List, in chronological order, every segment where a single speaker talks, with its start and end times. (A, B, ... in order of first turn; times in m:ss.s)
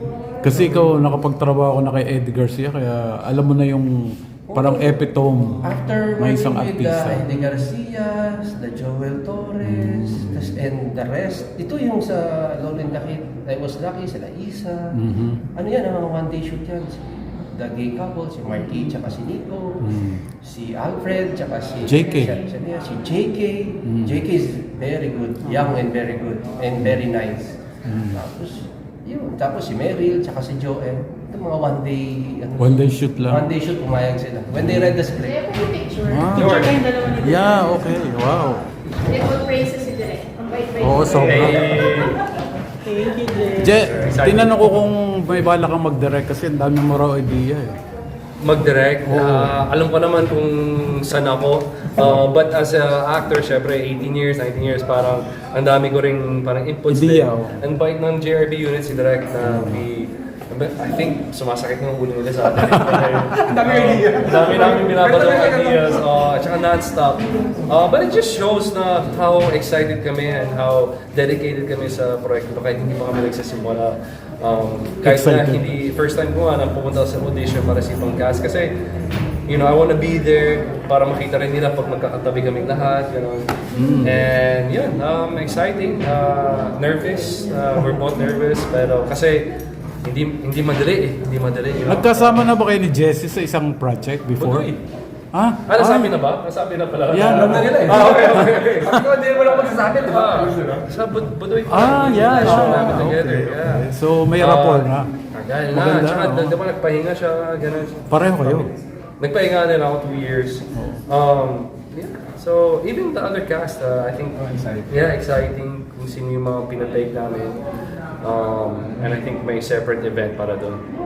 0:00.4-0:00.9 A
0:00.4-0:07.4 B
0:04.5-0:05.0 A
0:05.6-0:14.8 A
0:09.6-0:10.6 B
0:15.0-0:15.4 B
0:15.6-0:19.8 A
0:19.8-0:20.2 B
0:20.4-0:35.4 A
0:21.9-0:22.4 B
0:23.9-0:24.2 B
0:25.5-0:25.7 C
0:27.9-0:28.2 B
0:32.6-0:33.4 B
0:34.5-0:35.0 B
0:35.2-0:36.6 D
0:36.1-0:36.7 B
0:36.3-0:36.8 E
0:36.4-0:37.6 C
0:37.2-0:38.7 B
0:39.0-0:42.2 D
0:40.8-0:41.9 B
0:41.1-0:42.2 E
0:42.8-0:43.7 C
0:43.6-0:47.8 B
0:43.8-0:44.8 E
0:48.4-1:18.7 E
0:49.0-0:49.5 B
0:56.9-0:57.6 B
0:59.4-0:59.8 B
1:02.6-1:04.6 B
1:03.4-1:06.0 A
1:15.0-1:15.6 B
1:19.5-1:23.5 E
1:23.7-1:24.2 B
1:24.0-1:29.5 E
1:30.0-1:32.5 E
1:31.8-1:34.7 B
1:34.4-1:34.8 E
1:35.3-1:36.2 B
1:35.7-1:38.9 E
1:37.1-1:39.0 B
1:37.2-1:40.9 A
1:39.4-1:57.6 E
1:41.7-1:45.1 B
1:42.2-1:43.1 A
1:45.7-1:46.6 B
1:48.1-1:48.7 B
1:50.7-1:51.0 B
1:54.4-1:54.9 B
1:58.2-2:00.8 E